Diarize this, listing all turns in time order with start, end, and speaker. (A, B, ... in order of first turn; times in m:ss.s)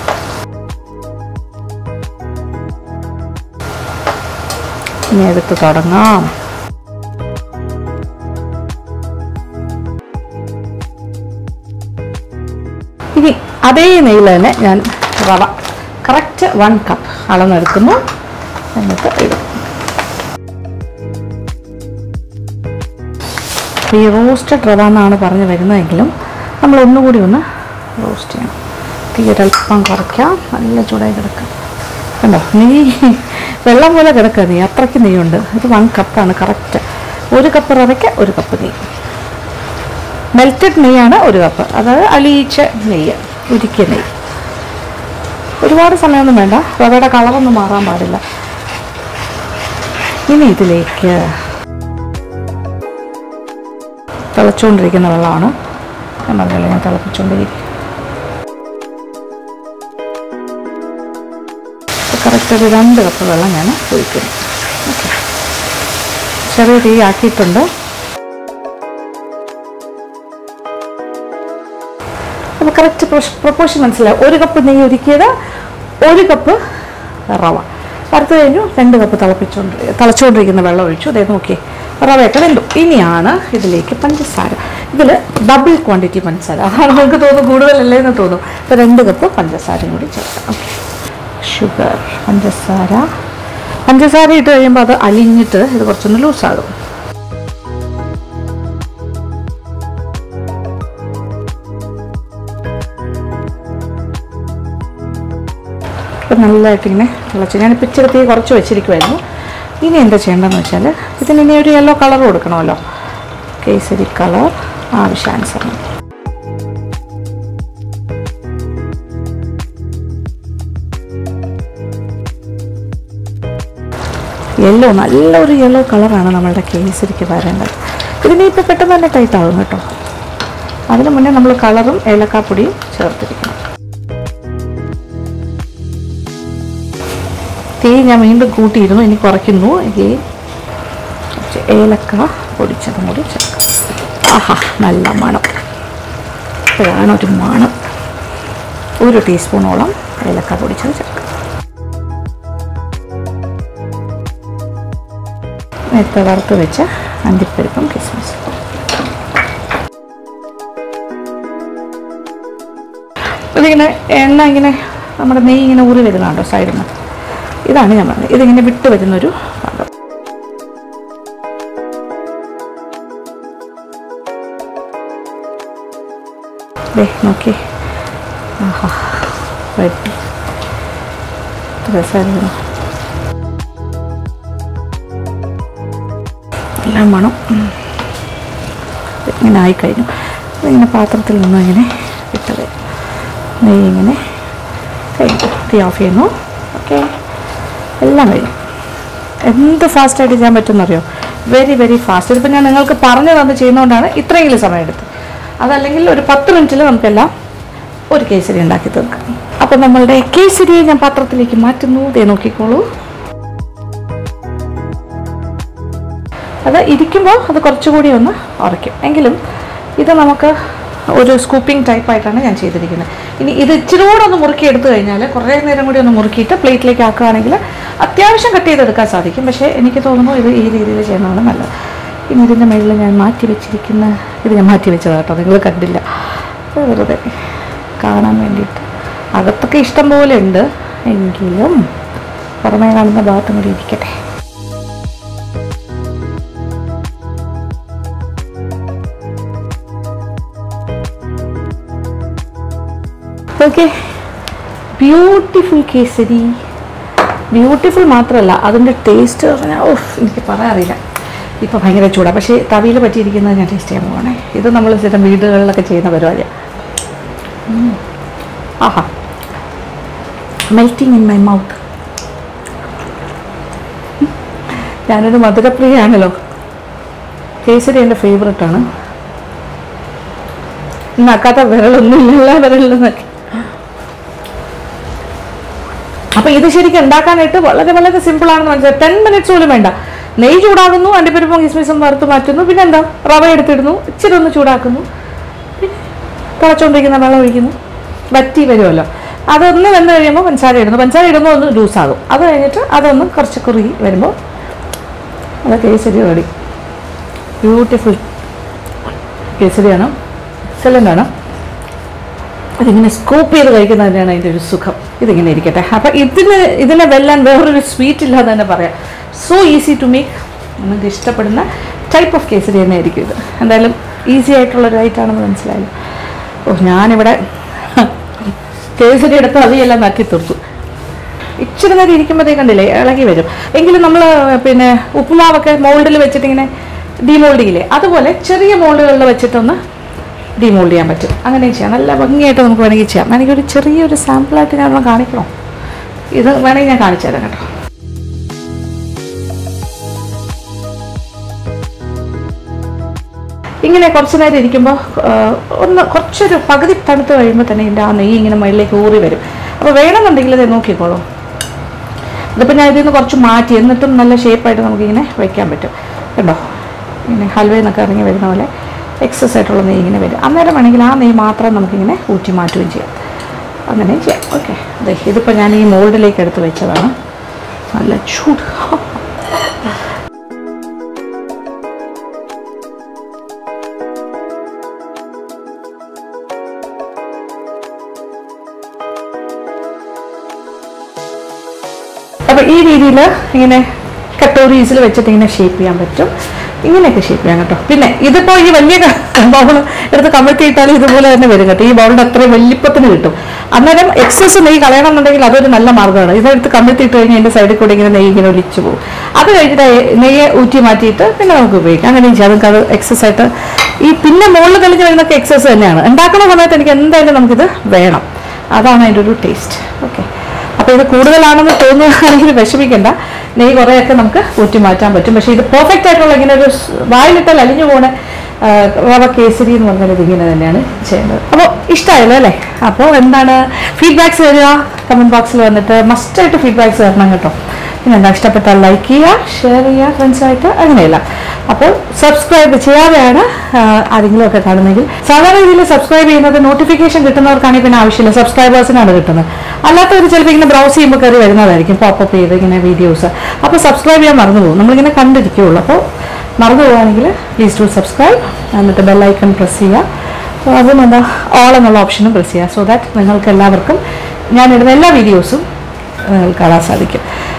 0:05.1-0:06.3 A
0:13.2-0:18.0 A
0:18.8-0:19.6 A
0:23.9-0:27.4 A
0:28.0-0:28.6 A
0:29.1-0:31.5 A
0:32.2-0:38.8 A
0:40.3-0:44.1 A
0:45.6-0:48.2 A
0:50.3-0:51.3 A
0:54.3-0:55.5 A
0:56.3-0:57.6 A
1:02.1-1:05.2 A
1:06.5-1:07.7 A
1:12.6-1:15.3 A
1:16.0-1:16.6 A
1:17.3-1:30.8 A
1:31.4-1:33.1 A
1:33.8-1:36.7 A
1:46.3-1:49.2 A
1:49.8-1:52.8 A
1:53.6-1:55.8 A
2:04.6-2:09.8 A
2:10.9-2:13.6 A
2:17.8-2:20.2 A
2:21.4-2:25.5 A
2:26.7-2:27.7 A
2:29.0-2:31.3 A
2:35.9-2:38.6 A
2:43.5-2:46.9 A
2:47.7-2:49.9 A
2:57.0-2:57.6 A
2:58.6-3:00.2 A
3:01.8-3:02.6 A
3:06.8-3:07.7 A
3:09.2-3:12.7 A
3:13.6-3:14.2 A
3:15.2-3:17.1 A
3:18.0-3:18.6 A
3:19.5-3:25.1 A
3:25.6-3:27.3 A
3:28.1-3:32.8 A
3:36.6-3:39.4 A
3:40.0-3:40.6 A
3:41.2-3:51.7 A
3:52.3-3:56.2 A
3:56.7-3:57.2 A
3:58.0-4:01.8 A
4:02.6-4:04.1 A
4:13.6-4:14.0 A
4:15.0-4:16.6 A
4:17.5-4:21.0 A
4:21.6-4:26.5 A
4:27.7-4:28.0 A
4:28.8-4:29.1 A
4:30.7-4:31.8 A
4:34.2-4:36.3 A
4:37.6-4:38.8 A
4:41.2-4:43.6 A
4:46.4-4:55.0 A
4:56.6-4:57.8 A
4:58.3-5:04.4 A
5:05.6-5:06.5 A
5:07.6-5:08.2 A
5:09.6-5:10.1 A
5:10.8-5:11.3 A
5:12.8-5:25.9 A
5:26.7-5:28.1 A
5:29.0-5:30.6 A
5:31.6-5:36.7 A
5:37.2-5:39.8 A
5:40.6-5:45.5 A
5:46.4-5:47.6 A
5:53.8-6:01.2 A
6:02.6-6:06.6 A
6:07.3-6:08.7 A
6:09.2-6:13.2 A
6:13.9-6:17.1 A
6:17.9-6:19.2 A
6:32.5-6:33.9 A
6:34.4-6:36.3 A
6:36.8-7:36.0 A
7:36.6-7:40.0 A
7:40.6-7:44.0 A
7:44.5-7:45.6 A
7:46.2-7:47.2 A